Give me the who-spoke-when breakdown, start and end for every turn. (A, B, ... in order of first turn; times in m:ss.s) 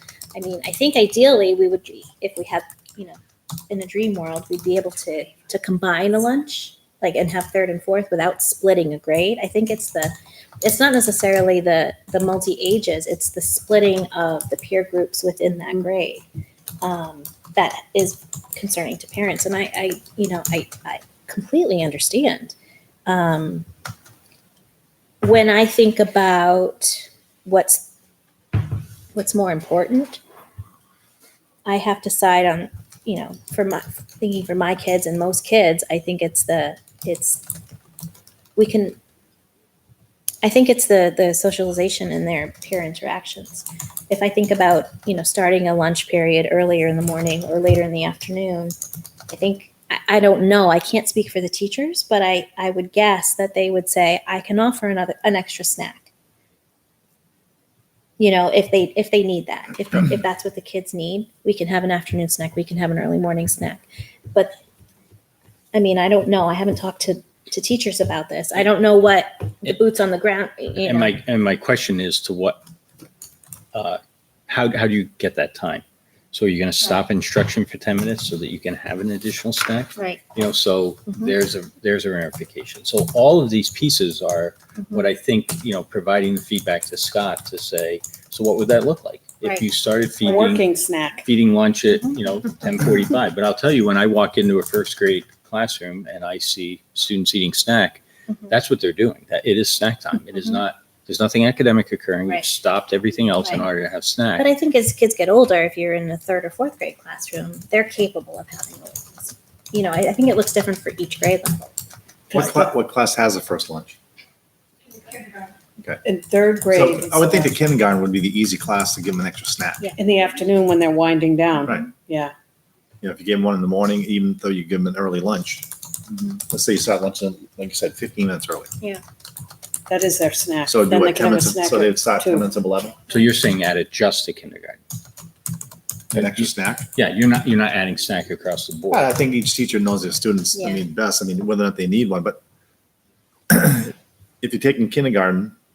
0:00.3-0:03.2 A
0:03.7-0:16.2 A
0:16.8-0:22.5 A
0:23.0-0:23.6 A
0:25.2-0:27.9 A
0:29.1-0:30.2 A
0:31.6-0:37.4 A
0:38.6-0:39.0 A
0:40.4-0:48.7 A
0:49.3-0:56.1 A
0:58.2-1:04.5 A
1:05.7-1:11.1 A
1:10.8-1:12.6 B
1:13.7-1:30.7 B
1:21.1-1:21.4 A
1:24.8-1:25.0 A
1:30.2-1:31.2 C
1:31.2-1:44.5 B
1:44.4-1:51.7 A
1:52.3-1:52.6 C
1:52.3-1:54.0 D
1:56.0-1:57.6 C
1:56.7-1:59.9 D
2:00.0-2:02.3 C
2:01.6-2:01.9 D
2:03.0-2:05.7 D
2:06.4-2:08.7 D
2:09.9-2:12.5 C
2:10.6-2:13.0 D
2:13.1-2:14.8 B
2:16.1-2:16.9 D
2:16.1-2:19.1 B
2:18.9-2:22.4 D
2:20.5-2:20.8 A
2:23.5-2:25.5 D